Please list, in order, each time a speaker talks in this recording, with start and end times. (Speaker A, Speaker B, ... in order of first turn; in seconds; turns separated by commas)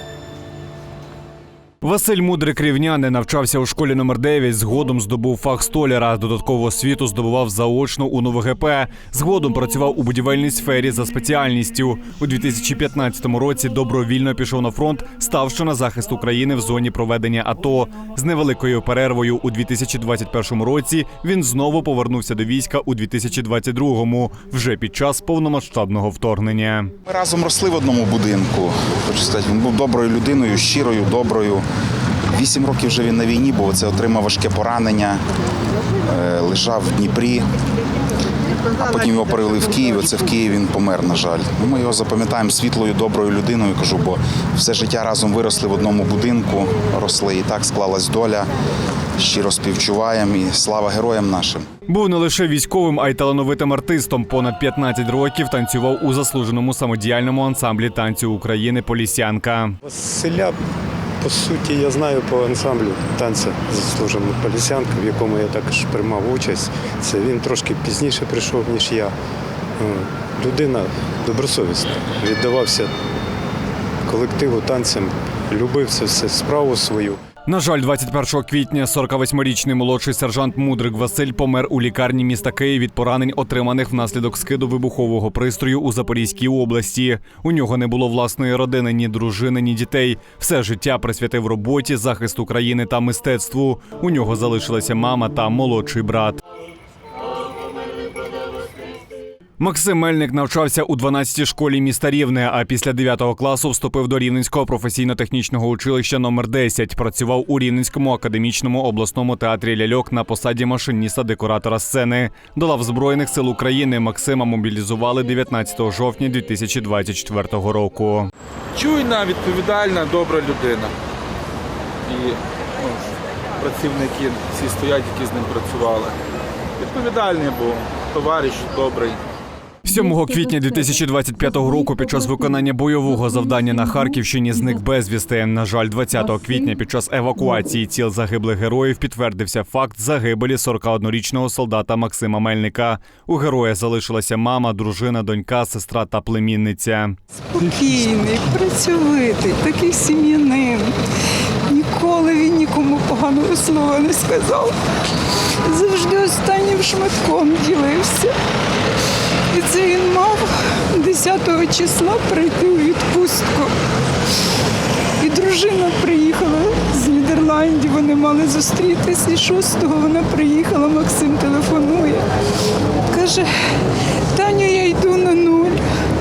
Speaker A: 1.8-26.9, Speaker B: 27.0-31.6, Speaker B: 32.3-35.2, Speaker B: 36.0-37.5, Speaker B: 38.7-48.5, Speaker B: 49.2-51.7, Speaker A: 51.9-59.8, Speaker C: 59.8-60.5, Speaker C: 61.2-69.1, Speaker C: 69.8-72.9, Speaker C: 74.0-77.2, Speaker A: 77.5-96.4, Speaker A: 99.6-118.3, Speaker D: 118.7-120.9, Speaker D: 122.0-126.2, Speaker D: 126.8-129.2, Speaker A: 129.8-147.2, Speaker E: 147.5-150.9, Speaker E: 151.6-154.8, Speaker E: 155.6-158.3, Speaker E: 159.5-163.7, Speaker E: 165.2-172.3, Speaker E: 173.1-173.5, Speaker E: 174.3-175.8